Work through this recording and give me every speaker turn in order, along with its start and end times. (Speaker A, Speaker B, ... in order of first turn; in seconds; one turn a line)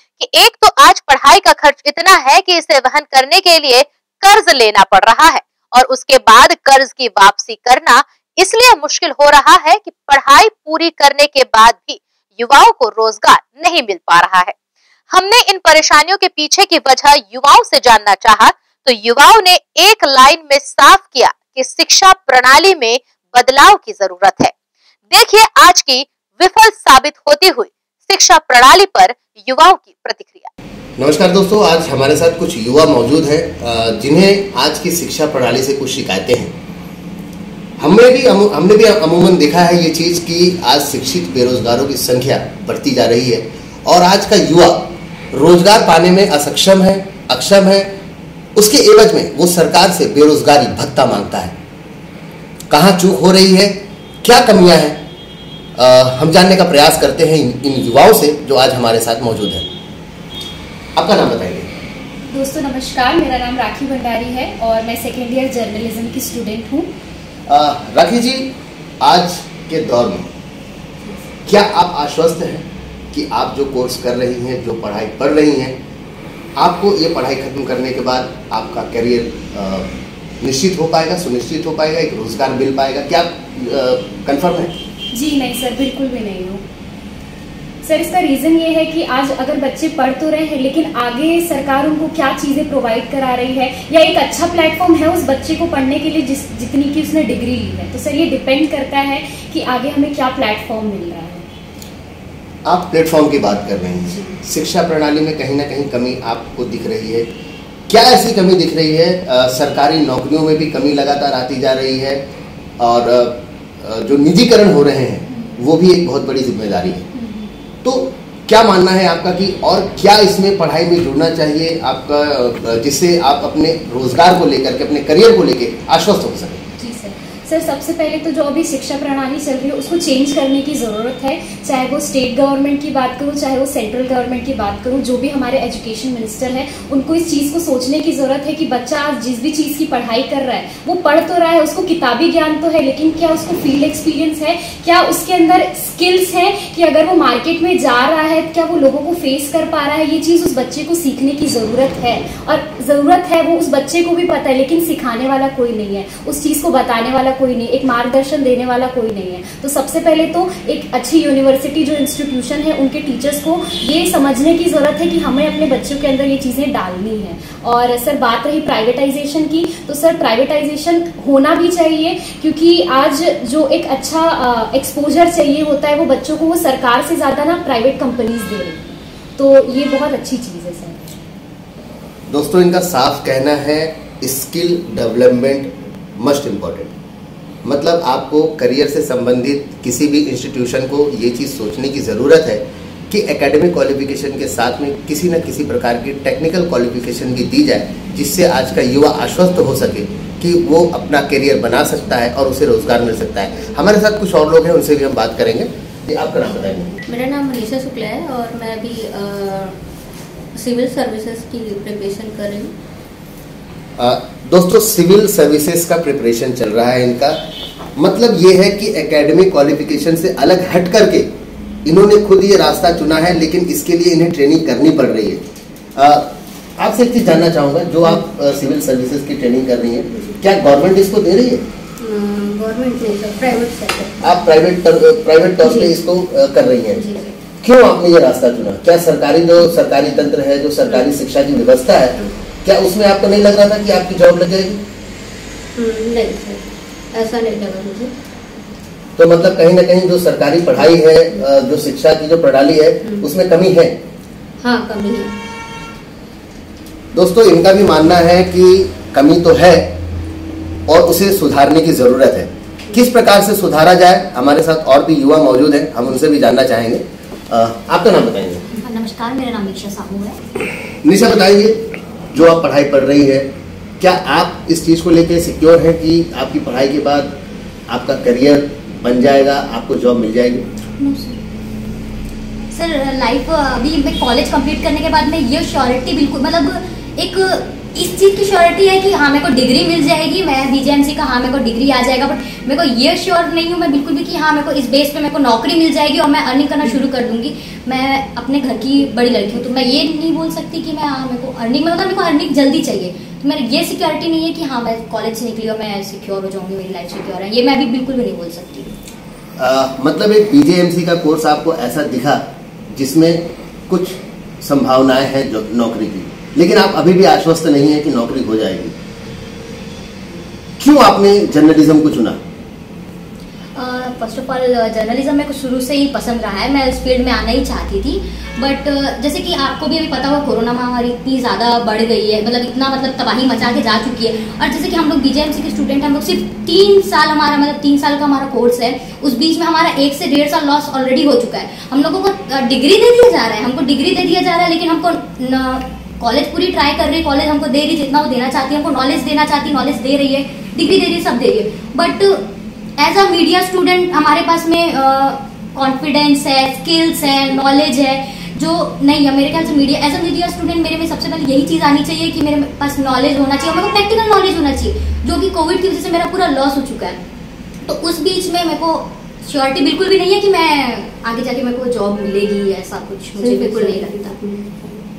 Speaker A: 0.2-14.5
Speaker A: 15.1-24.5
Speaker A: 25.1-30.5
Speaker B: 31.0-36.5
Speaker B: 37.8-48.0
Speaker B: 48.6-51.5
Speaker B: 52.7-55.0
Speaker B: 55.8-59.7
Speaker B: 61.0-61.7
Speaker C: 62.3-66.9
Speaker B: 67.5-70.3
Speaker B: 71.5-75.8
Speaker B: 76.6-84.7
Speaker C: 85.1-86.6
Speaker C: 87.8-101.5
Speaker B: 102.7-107.3
Speaker C: 104.1-104.3
Speaker B: 107.9-112.2
Speaker B: 112.8-117.1
Speaker C: 117.1-117.5
Speaker B: 117.8-126.6
Speaker C: 126.8-181.2
Speaker B: 182.3-186.9
Speaker B: 187.6-207.0
Speaker D: 207.1-209.8
Speaker D: 210.6-212.7
Speaker B: 214.0-217.4
Speaker B: 218.0-221.3
Speaker B: 221.8-225.4
Speaker B: 226.0-231.6
Speaker D: 232.0-234.4
Speaker B: 234.2-237.0
Speaker D: 235.6-236.0
Speaker D: 236.9-237.4
Speaker B: 237.6-244.8
Speaker D: 245.8-248.1
Speaker B: 249.2-254.0
Speaker D: 253.0-253.3
Speaker D: 254.6-255.4
Speaker B: 257.1-259.9
Speaker B: 260.9-268.6
Speaker E: 268.8-270.3
Speaker B: 271.0-273.5
Speaker B: 274.0-277.3
Speaker B: 277.9-280.7
Speaker E: 281.0-281.4
Speaker E: 282.7-308.9
Speaker B: 309.6-318.9
Speaker B: 320.8-322.4
Speaker E: 323.8-352.4
Speaker E: 353.0-367.2
Speaker E: 367.9-374.4
Speaker D: 373.4-375.1